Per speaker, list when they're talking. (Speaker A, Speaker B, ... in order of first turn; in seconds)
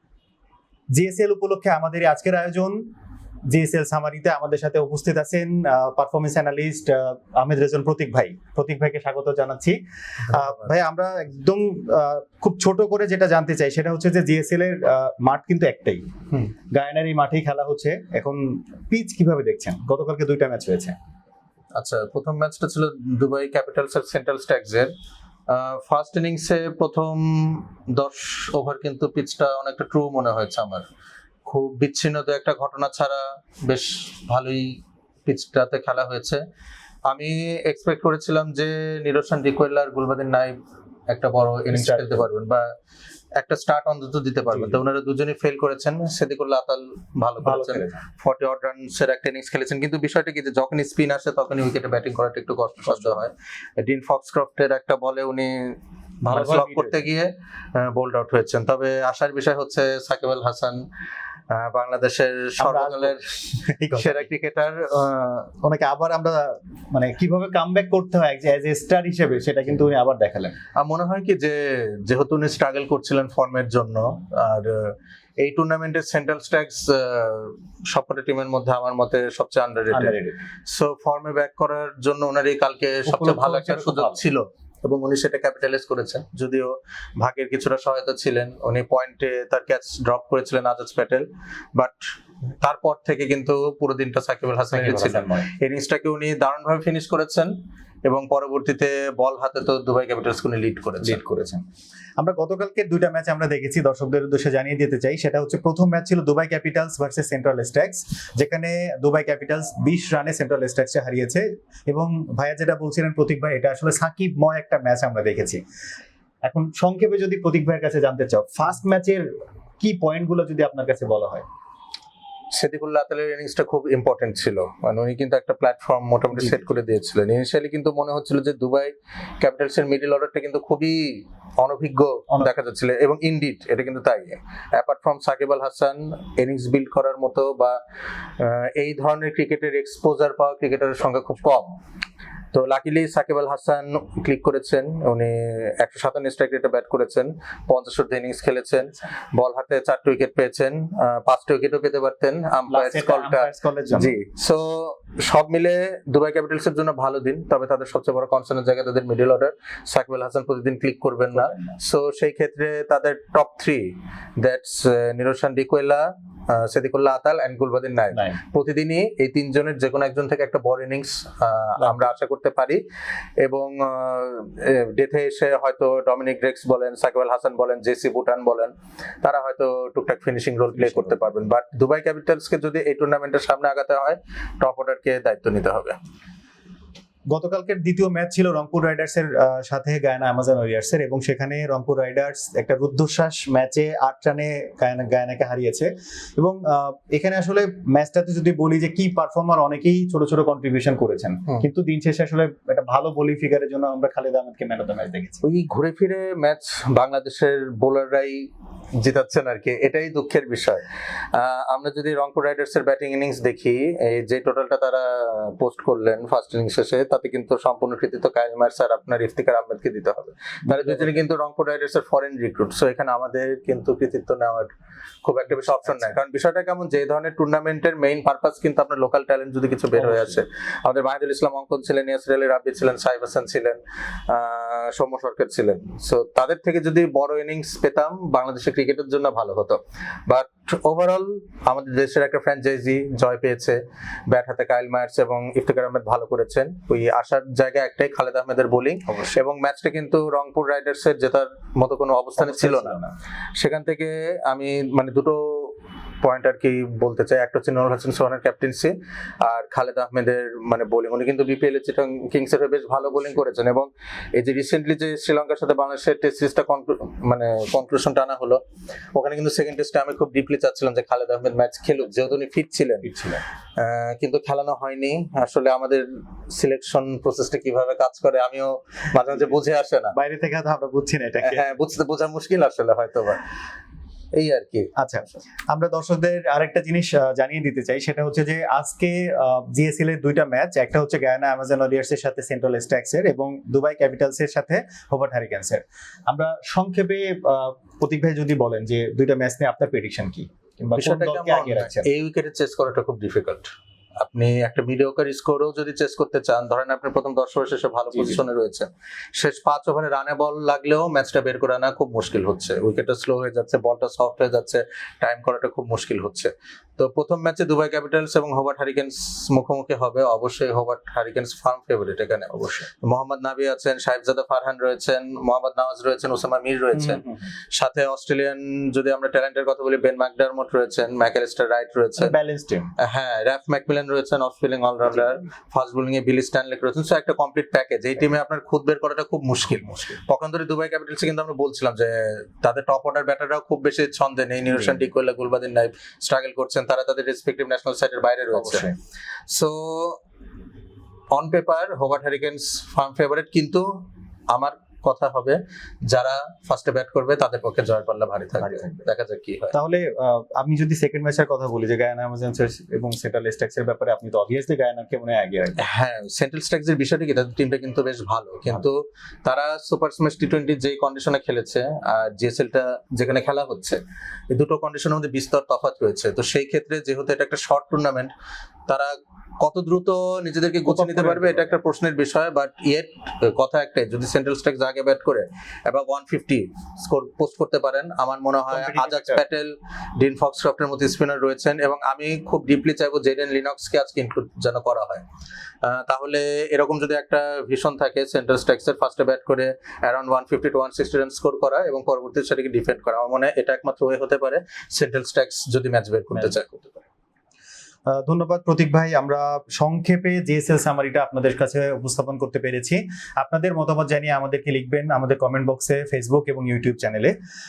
Speaker A: 0.9-2.8, 3.5-20.9, 41.7-42.2, 44.5-44.8, 47.4-48.0, 52.9-53.2, 56.3-57.0, 62.6-64.3, 65.6-70.6, 79.9-80.4, 83.1-84.2, 94.7-95.5, 101.0-101.6, 102.2-115.6, 116.5-119.3, 119.8-121.5, 152.7-154.2, 161.3-161.8, 171.8-172.1, 180.8-181.2, 187.3-205.4, 220.7-221.2, 225.5-226.2, 229.9-230.4, 252.4-253.2, 273.0-273.4, 280.1-281.7, 285.0-302.1, 308.1-308.4, 326.9-327.4, 332.2-332.9, 335.1-335.4, 348.5-349.0, 358.6-359.1, 359.7-365.8, 380.9-381.8, 388.7-389.4, 408.1-417.4
Speaker B: 21.8-24.9, 25.5-30.9, 31.5-36.4, 37.1-40.5, 41.1-42.7, 43.4-60.8, 61.5-63.3, 64.0-65.5, 70.8-92.0, 92.6-97.5, 98.1-101.2, 122.5-137.8, 138.4-141.7, 142.5-172.8, 173.4-186.0, 205.4-210.8, 211.3-224.7, 225.2-253.0, 253.6-268.6, 269.1-273.1, 273.8-280.1, 281.4-283.4, 284.4-284.9, 301.0-327.2, 327.7-332.4, 333.0-348.9, 349.5-350.2, 351.3-359.7, 365.8-378.3, 378.9-395.2, 395.8-407.0